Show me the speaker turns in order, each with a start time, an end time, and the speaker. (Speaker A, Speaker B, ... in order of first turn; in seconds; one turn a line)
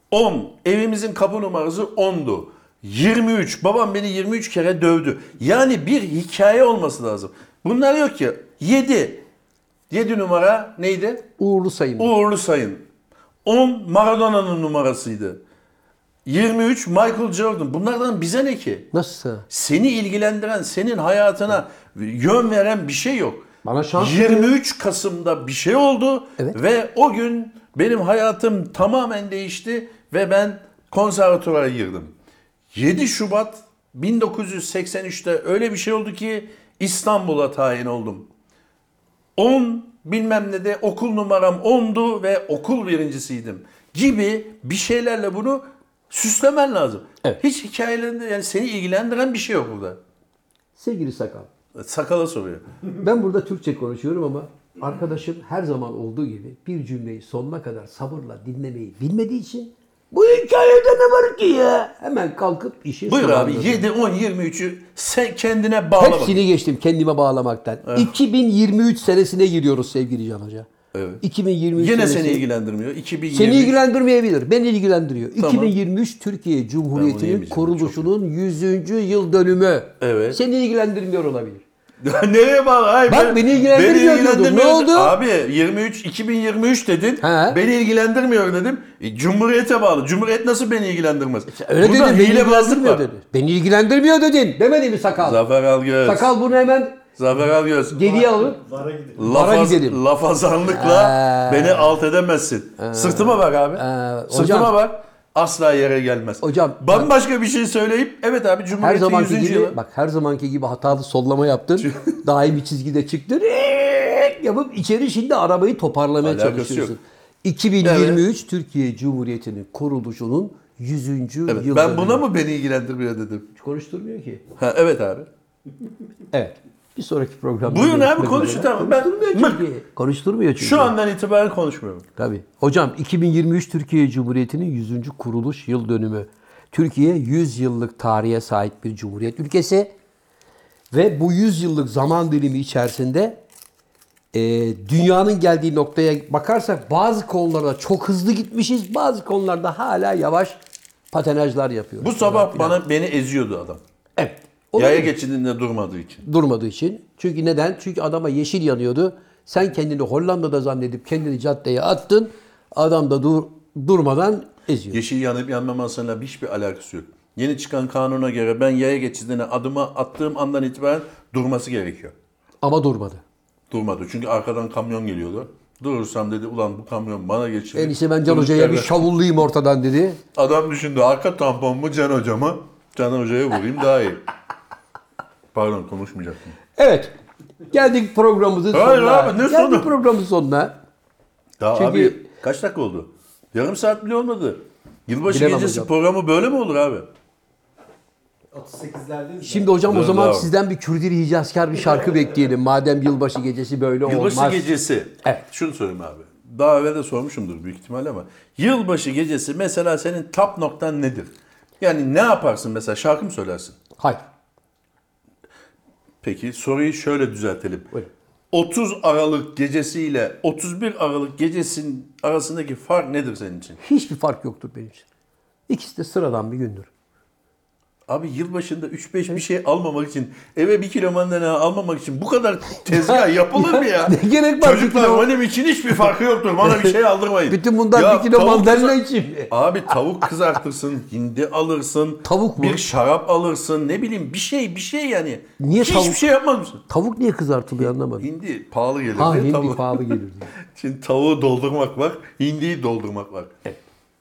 Speaker A: 0.1-9.2
Speaker A: 9.9-11.3
Speaker B: 11.4-12.1
Speaker A: 12.0-12.8
Speaker A: 13.4-15.4
Speaker A: 16.2-18.9
Speaker B: 18.9-19.4
Speaker A: 19.5-23.4
Speaker B: 23.6-24.5
Speaker A: 24.0-32.1
Speaker A: 32.7-38.3
Speaker A: 39.4-50.0
Speaker B: 50.8-51.5
Speaker A: 51.7-52.6
Speaker B: 53.0-63.9
Speaker A: 63.1-66.4
Speaker B: 66.0-70.7
Speaker A: 67.8-68.1
Speaker A: 70.9-71.2
Speaker B: 71.2-72.4
Speaker A: 71.8-73.8
Speaker B: 73.3-81.6
Speaker A: 75.4-75.7
Speaker A: 76.9-78.1
Speaker A: 80.0-80.4
Speaker A: 82.0-93.0
Speaker B: 83.1-85.2
Speaker B: 87.2-87.6
Speaker B: 91.5-95.4
Speaker A: 95.2-96.3
Speaker B: 96.0-97.0
Speaker A: 97.2-98.1
Speaker B: 97.9-98.6
Speaker C: 97.9-99.3
Speaker A: 99.2-109.8
Speaker B: 99.2-100.0
Speaker B: 100.6-102.0
Speaker B: 102.8-104.8
Speaker B: 106.4-107.1
Speaker B: 108.8-122.2
Speaker A: 111.8-112.2
Speaker A: 116.2-116.9
Speaker A: 117.8-118.2
Speaker A: 121.5-123.5
Speaker B: 123.5-124.4
Speaker A: 124.6-125.3
Speaker B: 126.3-130.9
Speaker A: 127.6-129.6
Speaker A: 130.6-132.1
Speaker B: 132.2-139.9
Speaker B: 140.9-143.4
Speaker B: 144.3-150.6
Speaker B: 151.1-152.8
Speaker A: 152.0-153.8
Speaker B: 154.2-155.1
Speaker A: 154.8-156.2
Speaker B: 156.2-165.0
Speaker A: 164.9-172.1
Speaker B: 172.6-173.2
Speaker A: 173.7-179.1
Speaker B: 177.7-180.2
Speaker A: 180.3-184.2
Speaker A: 185.5-186.5
Speaker B: 186.8-187.1
Speaker B: 187.7-190.7
Speaker A: 188.7-189.9
Speaker A: 191.6-197.1
Speaker B: 191.7-192.2
Speaker B: 195.3-195.9
Speaker C: 198.5-199.8
Speaker B: 199.4-204.7
Speaker A: 199.8-200.5
Speaker C: 201.9-202.3
Speaker A: 204.1-213.8
Speaker A: 216.2-217.9
Speaker A: 218.5-223.8
Speaker B: 223.8-225.0
Speaker B: 225.7-226.9
Speaker A: 228.1-246.8
Speaker B: 232.9-235.3
Speaker B: 236.6-236.9
Speaker B: 237.5-239.9
Speaker B: 242.2-242.8
Speaker B: 245.6-246.2
Speaker B: 246.9-248.3
Speaker A: 247.8-253.6
Speaker B: 249.1-250.5